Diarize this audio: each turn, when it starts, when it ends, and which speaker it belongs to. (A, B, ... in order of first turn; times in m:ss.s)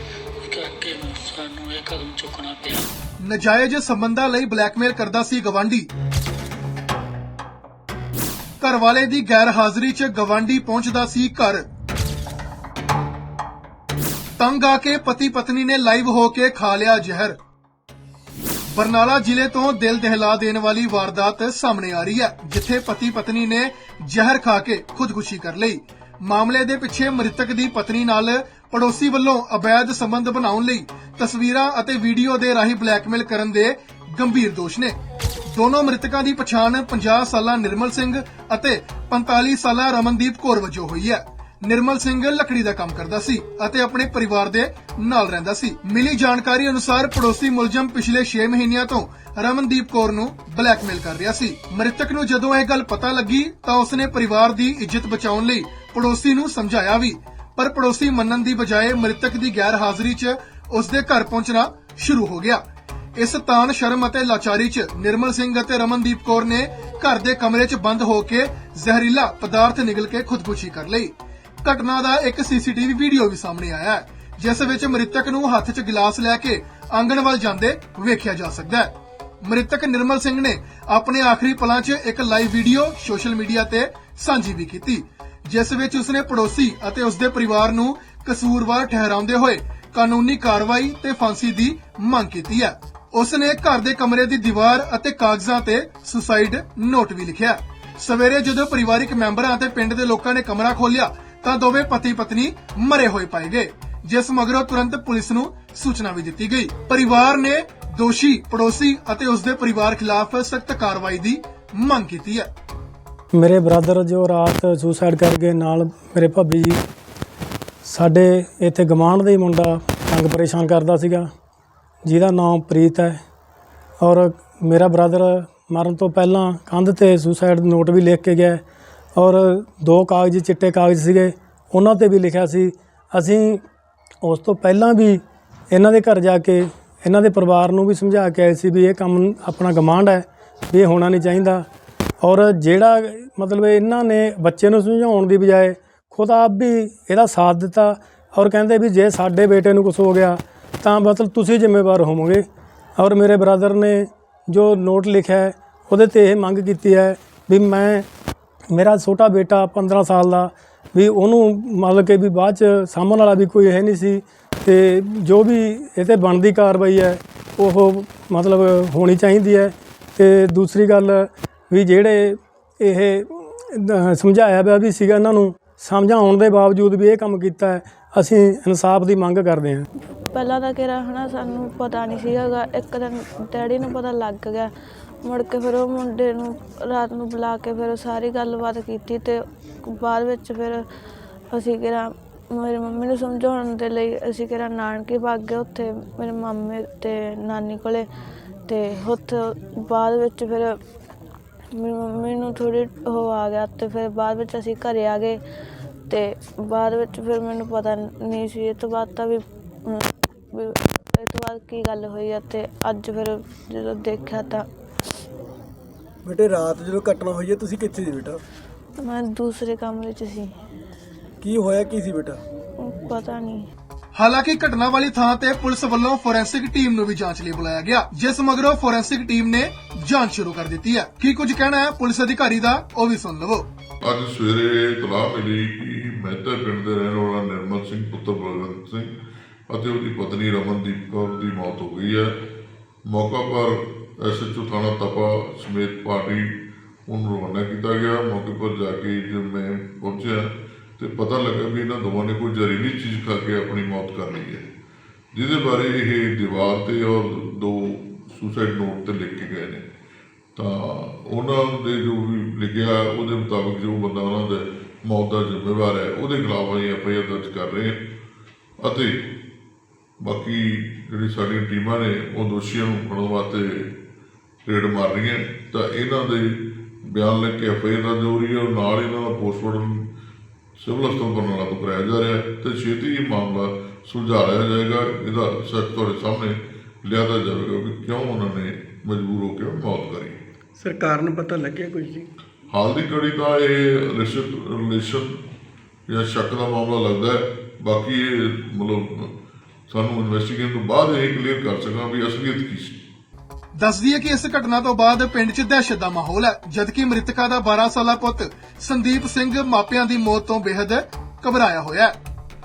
0:00.4-0:02.9 A
0:03.2-0:05.9 B
0:08.6-0:11.7 B
0:14.4-0:17.4 B
0:18.7-0:35.0 B
0:35.5-1:02.6 B
1:03.2-1:52.5 B
1:53.3-1:56.8 C
1:57.8-2:01.3 C
2:02.0-2:03.2 C
2:04.0-2:08.6 C
2:09.2-2:13.6 C
2:14.2-2:21.6 C
2:22.2-2:32.4 C
2:33.0-2:38.1 C
2:38.7-2:59.9 C
3:00.3-3:04.7 D
3:05.2-3:10.8 D
3:11.5-3:18.0 D
3:18.7-3:20.8 D
3:21.8-3:25.4 D
3:26.1-3:34.6 D
3:36.2-3:38.4 E
3:39.0-3:40.5 D
3:41.4-3:42.4 E
3:42.8-3:43.7 D
3:44.1-3:53.7 B
3:54.0-3:59.1 F
3:59.7-4:02.3 F
4:03.1-4:06.5 F
4:07.1-4:14.6 F
4:15.3-4:19.8 F
4:20.6-4:28.0 F
4:28.8-4:29.2 F
4:30.2-4:33.9 F
4:34.7-4:36.5 F
4:37.0-4:40.1 F
4:40.8-4:50.4 F
4:50.8-4:52.3 E
4:52.7-4:55.3 F
4:56.1-4:59.3 F
4:59.9-5:03.0 F
5:03.7-5:12.2 B